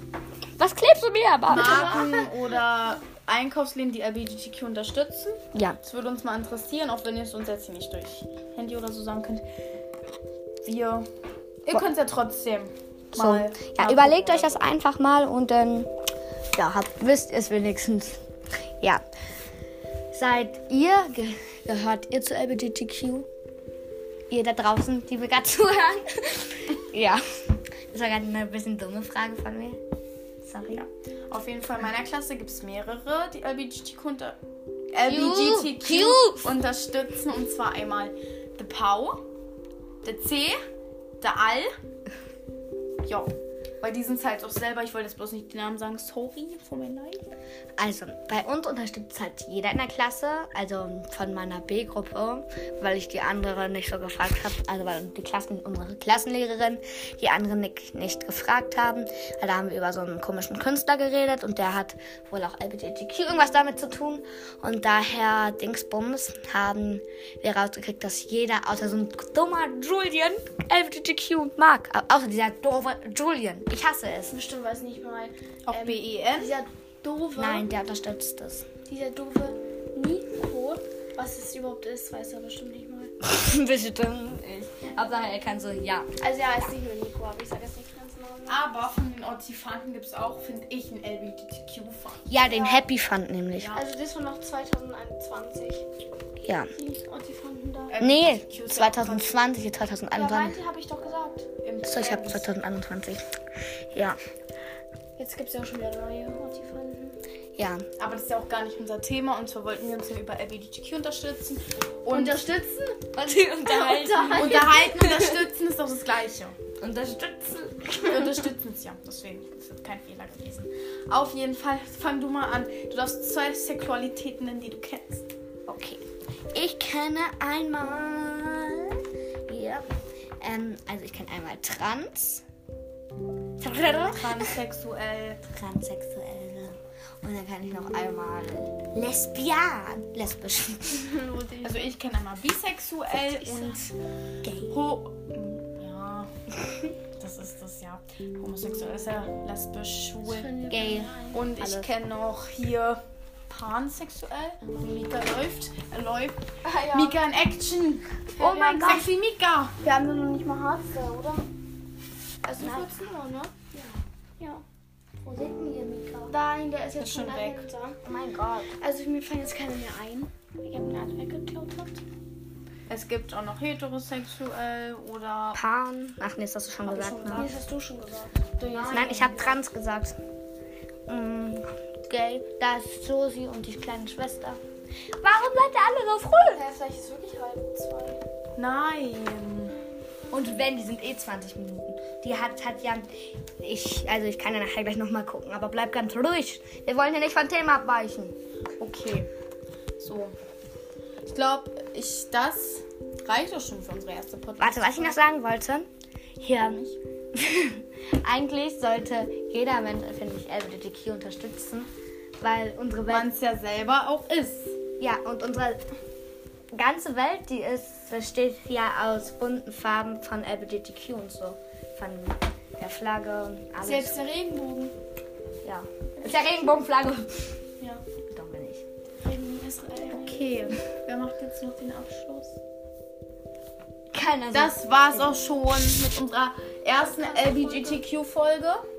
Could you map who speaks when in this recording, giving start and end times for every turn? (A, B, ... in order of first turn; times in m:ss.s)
0:00.6-0:02.1 A
0:01.5-0:09.5 B
0:01.6-0:02.3 C
0:10.6-0:11.1 B
0:11.7-0:14.7 B
0:13.1-0:15.9 A
0:16.6-0:18.2 A
0:20.1-0:23.3 A
0:24.3-0:29.8 A
0:30.4-0:30.8 A
0:30.7-0:34.4 B
0:34.9-0:39.2 B
0:35.0-0:36.6 A
0:40.0-0:40.6 B
0:41.2-0:41.7 B
0:43.0-0:47.2 B
0:47.8-1:14.4 A
1:14.3-1:17.7 C
1:15.7-1:16.6 B
1:17.4-1:18.7 A
1:18.8-1:23.1 C
1:23.2-1:26.1 A
1:26.2-1:28.7 C
1:28.5-1:32.4 B
1:32.3-1:33.7 A
1:32.4-1:32.9 C
1:33.6-1:33.9 B
1:33.7-1:35.9 C
1:36.4-1:36.7 A
1:36.8-1:38.0 C
1:37.9-1:39.5 B
1:38.0-1:40.6 A
1:40.1-1:41.6 C
1:41.6-1:42.5 B
1:41.8-1:43.2 A
1:43.9-1:44.2 A
1:45.2-1:47.2 C
1:47.6-1:47.8 A
1:48.0-1:52.5 B
1:52.1-1:53.1 C
1:53.1-1:55.4 A
1:53.6-1:55.1 C
1:54.3-1:56.6 B
1:56.8-1:58.4 A
1:58.0-2:05.3 B
2:05.7-2:09.8 A
2:10.4-2:12.4 A
2:13.6-2:14.6 A
2:13.9-2:15.4 B
2:15.5-2:21.2 A
2:21.0-2:22.0 C
2:21.6-2:23.8 B
2:23.4-2:24.7 A
2:24.6-2:26.3 B
2:27.2-2:30.6 B
2:30.2-2:31.5 C
2:30.7-2:31.9 A
2:31.3-2:39.8 B
2:36.6-2:37.2 C
2:38.4-2:41.5 C
2:38.4-2:39.0 A
2:42.4-2:43.9 C
2:42.6-2:42.9 A
2:44.4-2:44.6 C
2:45.2-2:46.3 A
2:46.2-2:48.0 C
2:47.0-2:47.7 B
2:48.0-2:48.7 A
2:48.7-2:52.0 C
2:52.9-2:55.6 B
2:55.6-2:57.5 A
2:56.9-2:59.4 C
2:57.2-2:57.6 B
2:58.7-2:59.6 B
2:58.9-3:00.2 A
3:01.1-3:04.6 A
3:05.2-3:06.7 A
3:06.5-3:08.2 C
3:08.6-3:09.8 B
3:10.3-3:18.4 A
3:18.8-3:19.3 B
3:20.0-3:20.3 B
3:21.2-3:25.3 B
3:24.6-3:33.3 A
3:33.1-3:34.8 B
3:35.0-3:35.8 A
3:36.7-3:44.2 A
3:43.8-3:45.0 C
3:45.6-3:47.6 A
3:48.3-3:48.8 A
3:49.2-3:50.7 C
3:50.1-3:52.6 B
3:54.1-3:55.4 A
3:54.5-3:58.8 B
3:57.0-3:58.0 C